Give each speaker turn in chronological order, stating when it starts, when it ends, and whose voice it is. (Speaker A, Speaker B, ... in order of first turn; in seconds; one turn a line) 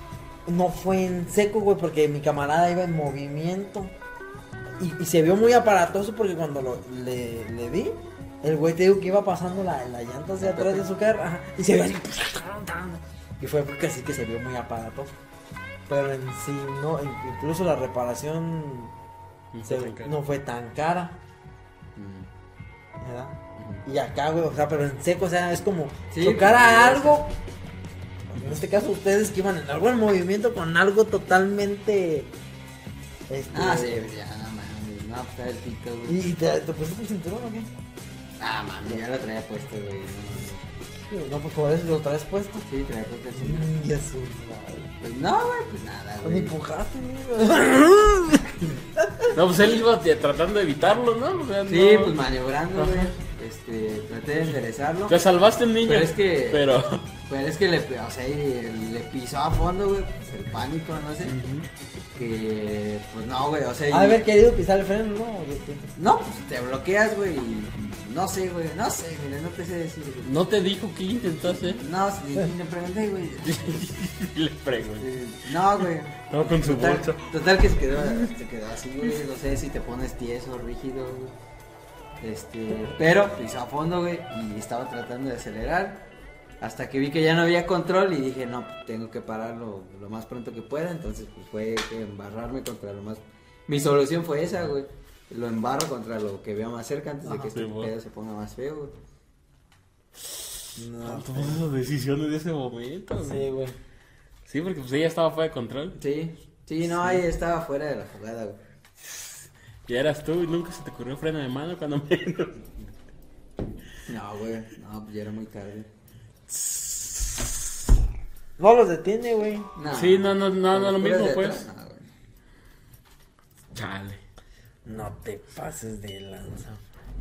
Speaker A: 0.5-3.9
Speaker A: 4.8-15.1
Speaker B: 10.5-10.8
Speaker A: 15.9-18.9
Speaker B: 19.5-20.1
Speaker A: 19.6-21.2
Speaker C: 21.9-22.3
Speaker A: 23.0-27.3
Speaker C: 23.6-23.8
Speaker C: 26.1-27.3
Speaker A: 28.3-32.3
Speaker A: 33.3-34.1
Speaker C: 33.5-36.2
Speaker A: 36.1-37.7
Speaker C: 38.4-40.7
Speaker A: 41.0-42.6
Speaker C: 42.6-43.7
Speaker A: 43.3-44.9
Speaker C: 45.0-46.5
Speaker A: 46.2-49.3
Speaker B: 49.3-52.2
Speaker C: 51.7-55.2
Speaker B: 52.7-53.1
Speaker B: 55.1-57.0
Speaker C: 55.8-56.7
Speaker C: 57.2-61.4
Speaker B: 61.2-61.7
Speaker C: 62.1-64.2
Speaker A: 63.9-65.9
Speaker C: 66.0-70.3
Speaker B: 70.2-71.8
Speaker C: 71.4-73.9
Speaker B: 73.4-75.1
Speaker C: 75.0-81.3
Speaker B: 76.3-77.3
Speaker B: 77.9-78.3
Speaker C: 82.2-86.0
Speaker C: 86.6-98.9
Speaker B: 97.3-97.9
Speaker A: 100.8-101.6
Speaker B: 101.0-103.5
Speaker A: 103.2-103.8
Speaker B: 104.5-106.0
Speaker C: 106.0-108.6
Speaker B: 109.9-112.5
Speaker C: 114.0-115.9
Speaker B: 116.5-117.5
Speaker A: 118.6-119.7
Speaker C: 119.8-122.1
Speaker B: 119.9-121.6
Speaker B: 123.7-124.2
Speaker A: 124.8-126.8